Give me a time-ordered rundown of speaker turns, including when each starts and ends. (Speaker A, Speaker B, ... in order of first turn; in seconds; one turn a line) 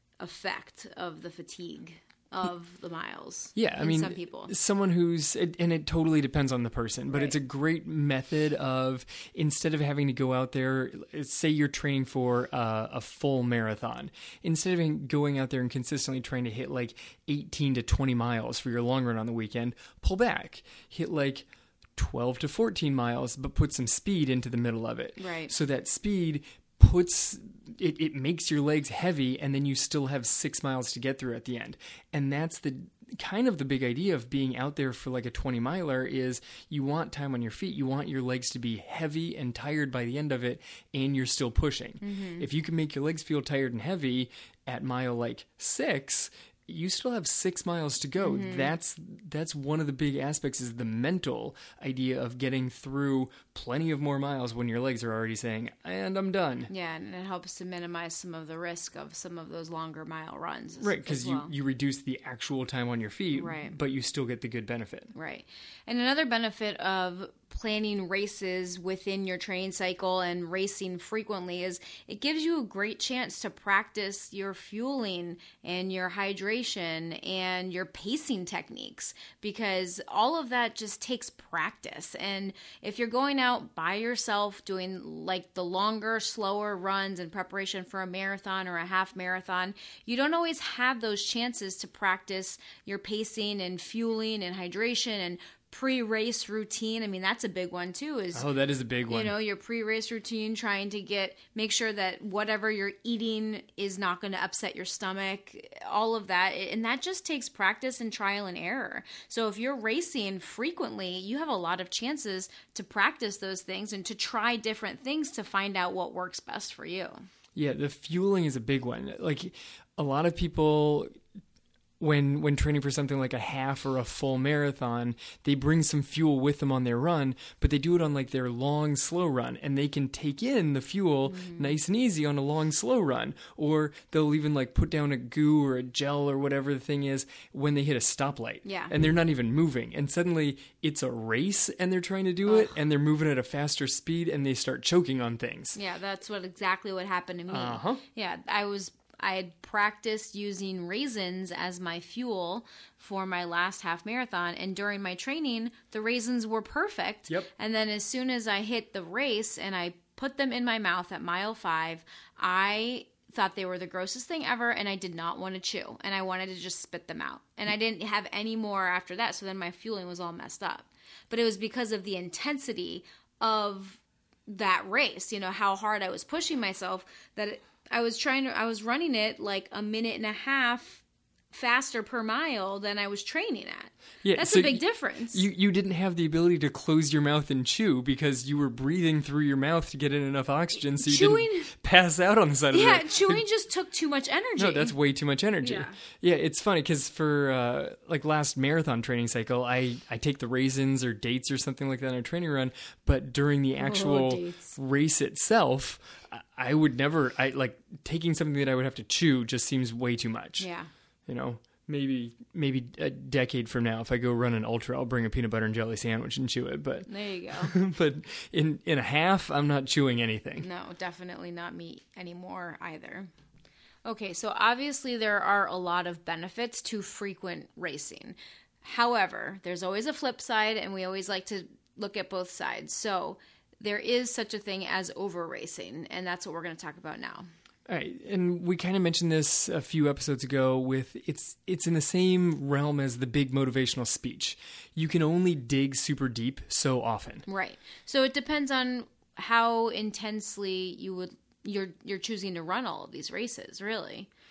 Speaker A: 0.2-4.5
Speaker B: 3.6-56.7
Speaker A: 7.1-7.4
Speaker A: 25.2-25.5
Speaker A: 42.0-42.5
Speaker A: 48.2-48.7
Speaker A: 56.7-61.5
Speaker B: 60.8-65.1
Speaker A: 63.3-63.8
Speaker A: 65.1-98.5
Speaker B: 98.3-99.3
Speaker A: 99.1-117.2
Speaker B: 117.6-121.1
Speaker B: 122.0-145.8
Speaker A: 131.3-131.8
Speaker A: 138.7-138.9
Speaker A: 142.5-142.8
Speaker A: 145.8-185.4
Speaker B: 147.5-148.0
Speaker B: 184.2-193.4
Speaker A: 191.0-191.7
Speaker A: 192.7-194.9
Speaker B: 194.6-210.7
Speaker A: 195.6-196.0
Speaker A: 203.8-204.8
Speaker A: 210.6-210.9
Speaker B: 211.3-220.7
Speaker A: 217.1-217.8
Speaker A: 220.6-223.3
Speaker A: 224.1-237.5
Speaker B: 237.9-247.4
Speaker A: 247.5-254.3